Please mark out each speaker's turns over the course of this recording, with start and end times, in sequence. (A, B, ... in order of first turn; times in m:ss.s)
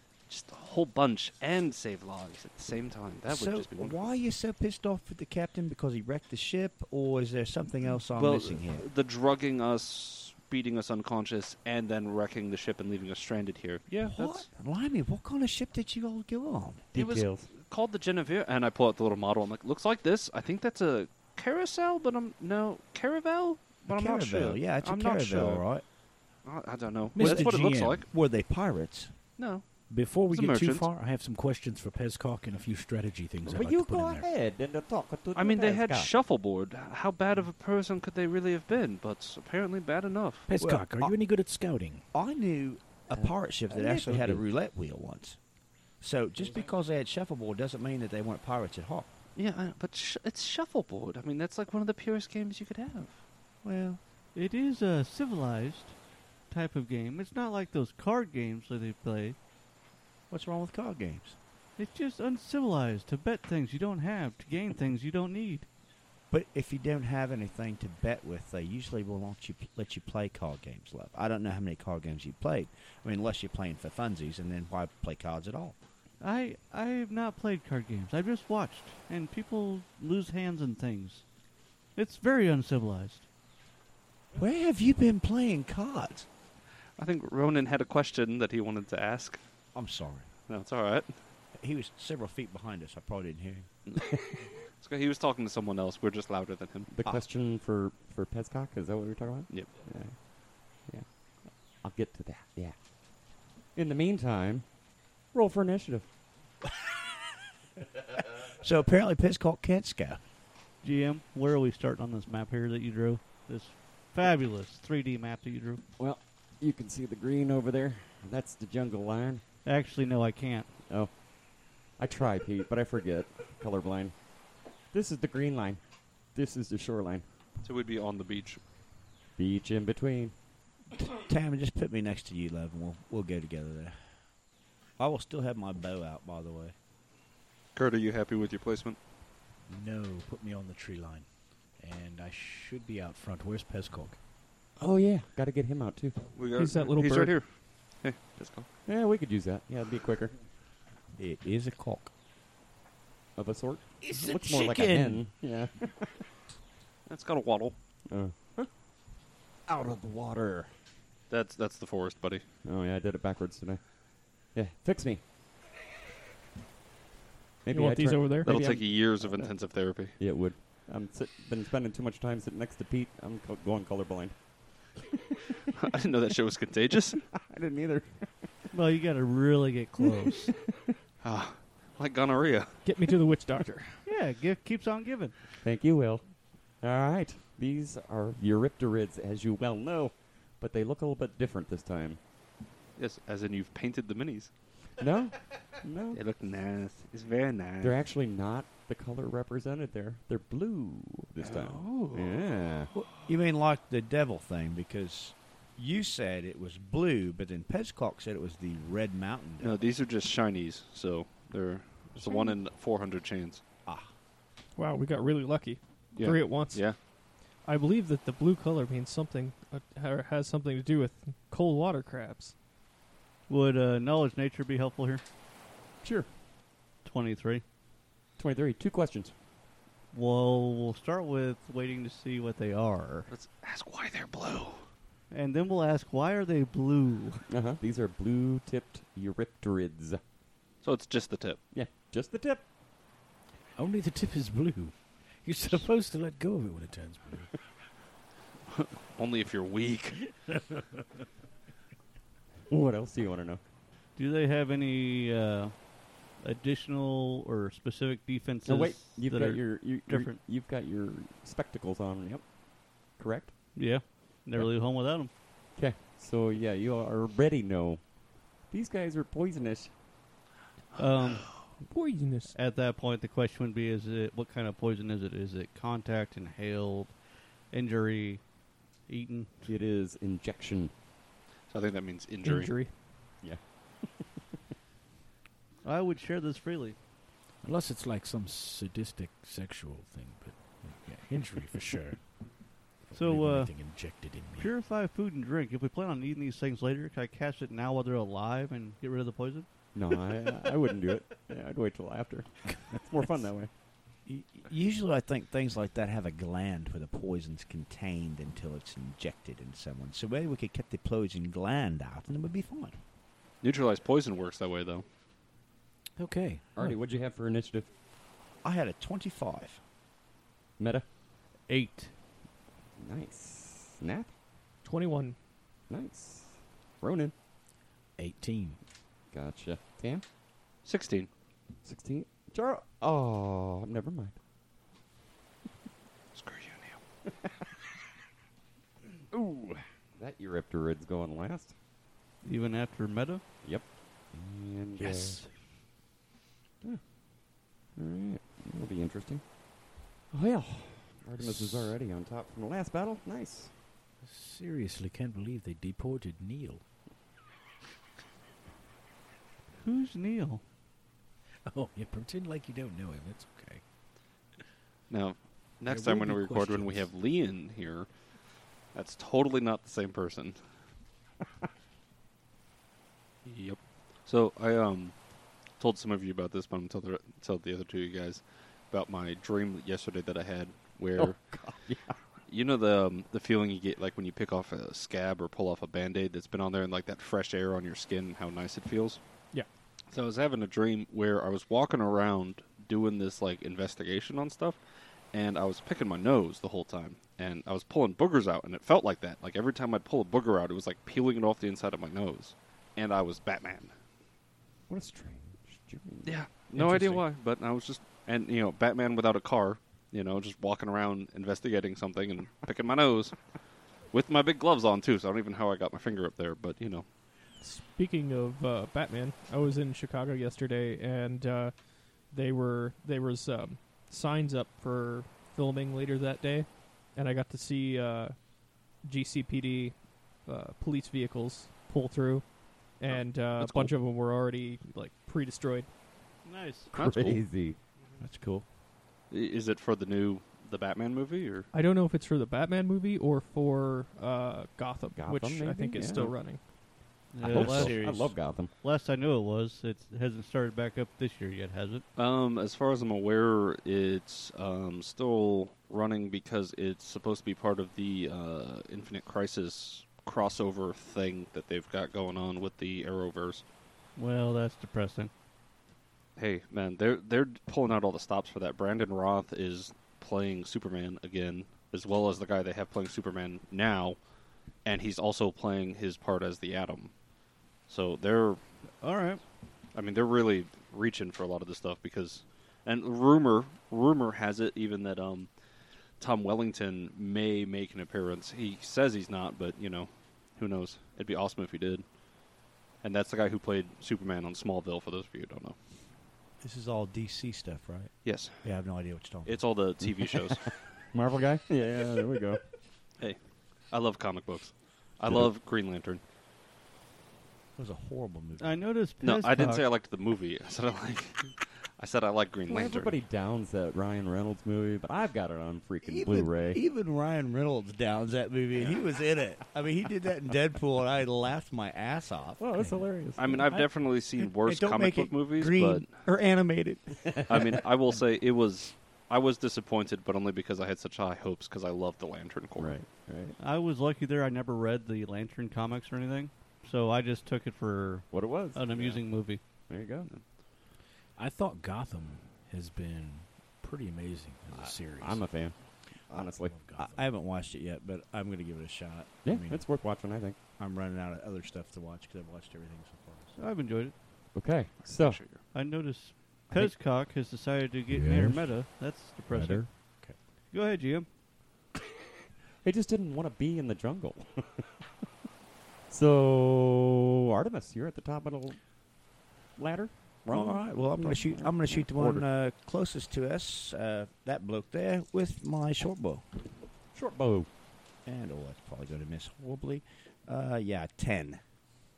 0:00.3-0:04.1 A
0:03.3-0:08.9 B
0:08.1-0:14.5 A
0:14.0-0:16.9 B
0:16.9-0:17.5 C
0:17.0-0:25.7 A
0:23.9-0:25.8 B
0:26.4-0:28.1 A
0:27.2-0:28.0 D
0:27.2-0:29.1 B
0:29.4-0:30.9 A
0:29.9-0:34.3 D
0:33.5-0:36.1 C
0:35.4-0:40.5 A
0:40.5-0:42.0 D
0:40.6-0:41.2 B
0:42.1-0:45.4 B
0:43.7-0:44.4 C
0:46.0-0:49.1 B
0:49.4-0:53.2 A
0:53.6-0:54.0 B
0:54.4-0:59.4 E
1:00.3-1:01.4 B
1:01.8-1:05.7 E
1:06.3-1:15.8 B
1:16.2-1:21.3 E
1:22.0-1:23.3 E
1:24.4-1:26.3 B
1:27.0-1:29.4 A
1:29.8-1:30.3 B
1:30.5-1:31.2 A
1:31.6-1:33.7 B
1:33.9-1:34.2 A
1:34.0-1:34.4 C
1:34.8-1:37.0 A
1:36.9-1:42.8 C
1:43.8-1:44.7 C
1:45.3-1:46.1 C
1:48.4-1:50.2 B
1:50.8-1:55.8 E
1:56.0-1:59.4 C
1:59.6-2:00.7 E
2:00.9-2:01.2 C
2:01.9-2:04.2 C
2:04.9-2:05.8 C
2:06.3-2:07.2 C
2:07.6-2:08.6 A
2:09.4-2:10.4 C
2:11.0-2:14.0 B
2:15.0-2:16.8 B
2:17.8-2:19.0 A
2:19.7-2:24.2 D
2:24.8-2:26.3 C
2:26.4-2:28.7 A
2:26.6-2:27.4 F
2:28.9-2:30.3 C
2:31.2-2:32.1 B
2:33.4-2:36.2 C
2:34.3-2:35.2 D
2:37.1-2:37.8 A
2:38.1-2:38.7 C
2:39.7-2:40.7 C
2:41.3-2:42.4 A
2:42.6-2:45.2 C
2:47.6-2:49.5 C
2:47.7-2:48.6 F
2:48.4-2:50.2 A
2:50.2-2:55.0 C
2:55.7-2:57.2 A
2:57.3-2:58.5 C
2:58.7-3:00.5 E
3:01.2-3:02.8 A
3:02.8-3:04.0 F
3:04.1-3:05.3 E
3:05.6-3:06.2 C
3:06.8-3:12.2 C
3:13.0-3:14.5 A
3:15.0-3:16.2 C
3:16.1-3:18.0 A
3:17.8-3:22.9 C
3:21.4-3:23.1 A
3:23.0-3:29.9 B
3:29.6-3:33.6 A
3:34.8-3:37.0 F
3:36.2-3:37.0 A
3:37.6-3:42.5 F
3:43.5-3:45.2 E
3:46.0-3:46.3 C
3:47.0-3:47.6 E
3:48.4-3:49.3 C
3:50.1-3:53.3 E
3:53.3-3:54.8 A
3:55.3-3:57.4 E
3:57.5-4:00.2 C
4:00.8-4:01.6 A
4:01.7-4:02.6 C
4:03.8-4:07.5 D
4:08.7-4:10.5 A
4:12.7-4:13.6 C
4:14.2-4:20.4 E
4:18.6-4:22.5 C
4:23.1-4:23.8 C
4:23.8-4:25.3 E
4:25.8-4:28.0 C
4:28.7-4:29.9 C
4:31.0-4:31.5 E
4:31.8-4:32.6 F
4:32.5-4:37.2 E
4:37.7-4:38.4 E
4:39.1-4:39.5 E
4:39.7-4:40.9 C
4:41.7-4:42.7 A
4:42.4-4:42.9 F
4:43.4-4:44.3 C
4:45.8-4:47.0 E
4:47.6-4:52.4 D
4:53.0-4:54.7 D
4:53.1-4:54.0 E
4:54.5-4:59.7 E
4:59.9-5:03.7 C
5:04.3-5:13.0 B
5:13.6-5:15.0 A
5:16.2-5:16.9 D
5:16.8-5:17.9 C
5:18.6-5:19.8 B
5:20.8-5:21.1 C
5:21.7-5:22.1 E
5:23.0-5:24.3 C
5:24.8-5:25.4 F
5:25.9-5:27.3 C
5:28.2-5:28.8 D
5:29.3-5:30.2 C
5:30.8-5:31.3 A
5:31.8-5:34.4 C
5:36.4-5:37.0 A
5:39.3-5:41.7 C
5:42.4-5:43.4 E
5:43.6-5:45.4 C
5:45.0-5:45.4 D
5:48.0-5:49.4 C
5:50.3-5:53.7 C
5:54.2-5:56.8 D
5:59.8-6:00.6 E
6:01.7-6:03.8 D
6:05.1-6:08.1 A
6:05.9-6:07.1 D
6:08.9-6:10.6 A
6:13.4-6:15.2 A
6:15.8-6:21.4 A
6:21.2-6:22.2 C
6:22.5-6:29.2 A
6:30.1-6:34.8 A
6:35.3-6:43.9 A
6:44.9-6:47.2 C
6:46.2-6:53.4 A
6:54.1-6:57.0 A
6:57.6-7:08.4 F
7:09.0-7:12.5 F
7:13.0-7:15.9 F
7:13.6-7:13.9 C
7:16.4-7:16.9 E
7:16.9-7:17.8 C
7:17.0-7:17.4 A
7:18.2-7:18.6 B
7:19.3-7:21.7 A
7:21.7-7:26.6 F
7:25.2-7:26.4 C
7:26.0-7:26.3 A
7:27.3-7:32.0 E
7:27.4-7:28.7 C
7:32.2-7:43.6 A
7:44.2-7:45.3 E
7:46.4-7:54.2 A
7:54.8-7:57.1 A
7:57.9-7:58.6 A
7:59.0-7:59.4 E
7:59.9-8:05.5 A
8:06.2-8:12.0 A
8:13.0-8:15.8 A
8:16.6-8:19.6 B
8:18.2-8:18.6 A
8:19.5-8:20.8 A
8:20.1-8:20.5 C
8:21.1-8:22.6 C
8:23.9-8:26.2 A
8:27.8-8:28.8 B
8:28.6-8:29.9 E
8:29.2-8:33.1 A
8:32.7-8:36.8 C
8:36.0-8:42.6 B
8:42.6-8:43.7 C
8:42.8-8:43.0 D
8:43.4-8:46.1 A
8:44.4-8:47.7 B
8:47.2-8:47.8 C
8:47.5-8:53.0 A
8:52.8-8:53.6 C
8:53.6-8:59.6 E
8:58.3-8:59.2 C
8:59.9-9:00.3 C
9:01.4-9:05.4 D
9:04.7-9:05.8 C
9:06.3-9:06.8 C
9:06.6-9:07.2 D
9:07.0-9:09.8 B
9:09.4-9:10.6 C
9:10.8-9:13.6 B
9:13.6-9:14.1 E
9:14.5-9:15.4 C
9:15.0-9:15.6 A
9:15.7-9:21.3 E
9:18.1-9:18.8 D
9:19.5-9:20.4 D
9:22.8-9:24.9 C
9:26.1-9:28.8 C
9:29.8-9:32.4 C
9:30.5-9:36.5 B
9:37.1-9:37.7 C
9:38.3-9:41.6 B